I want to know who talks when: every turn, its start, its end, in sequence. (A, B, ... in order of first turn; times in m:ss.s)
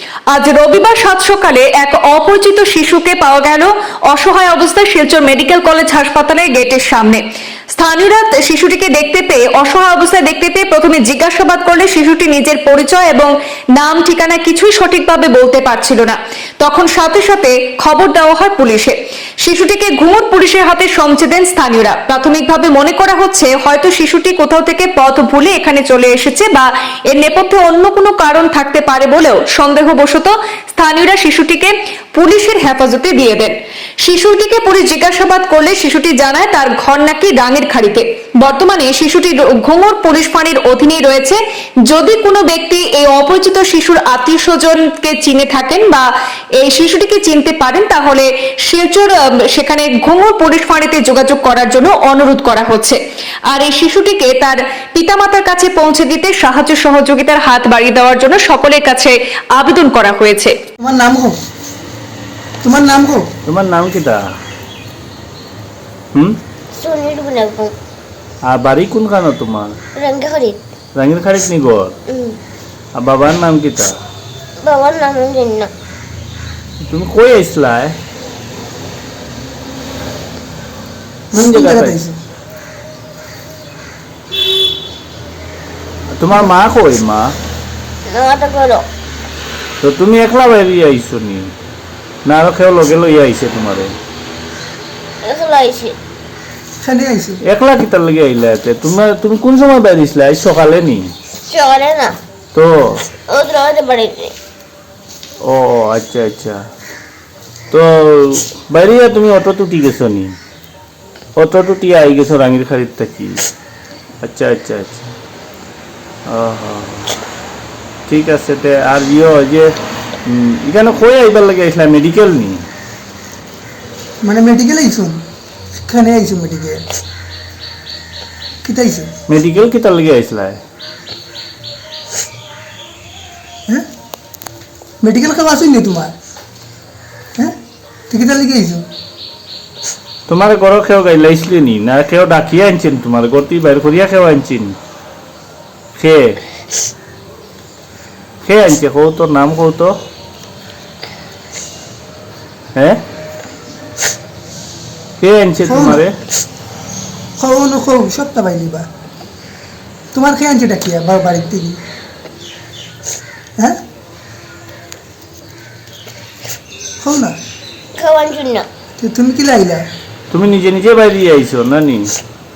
0:00.3-0:07.2 A
0:07.7-0:46.1 A
0:46.6-1:00.5 A
1:00.8-1:01.4 B
1:02.6-1:03.3 B
1:03.5-1:04.2 C
1:06.7-1:07.7 D
1:08.5-1:09.8 C
1:10.0-1:10.6 D
1:11.0-1:12.0 C
1:12.1-1:12.4 D
1:13.0-1:14.0 C
1:14.6-1:15.7 D
1:16.8-1:18.0 C
1:21.3-1:22.2 B
1:21.3-1:22.0 C
1:26.2-1:27.3 C
1:28.1-1:28.9 D
1:29.8-1:31.5 C
1:32.2-1:34.0 C
1:35.2-1:36.0 D
1:36.8-1:37.4 B
1:37.5-1:41.1 C
1:41.5-1:42.2 D
1:42.5-1:43.0 C
1:43.3-1:44.3 D
1:45.4-1:46.6 C
1:47.7-1:50.3 C
1:51.4-1:53.4 C
1:54.2-1:55.1 C
1:56.3-1:57.1 C
1:58.1-1:59.7 C
2:00.3-2:02.6 C
2:04.2-2:05.2 B
2:05.8-2:06.8 B
2:08.6-2:09.1 B
2:09.3-2:10.6 C
2:15.0-2:16.2 B
2:18.1-2:18.8 B
2:20.3-2:24.8 C
2:26.0-2:26.4 C
2:28.4-2:29.9 C
2:32.8-2:33.0 C
2:35.2-2:36.1 C
2:35.6-2:36.0 B
2:37.4-2:38.9 B
2:40.1-2:41.8 B
2:47.0-2:47.4 B
2:48.0-2:48.7 D
2:49.0-2:49.8 B
2:50.3-2:52.1 C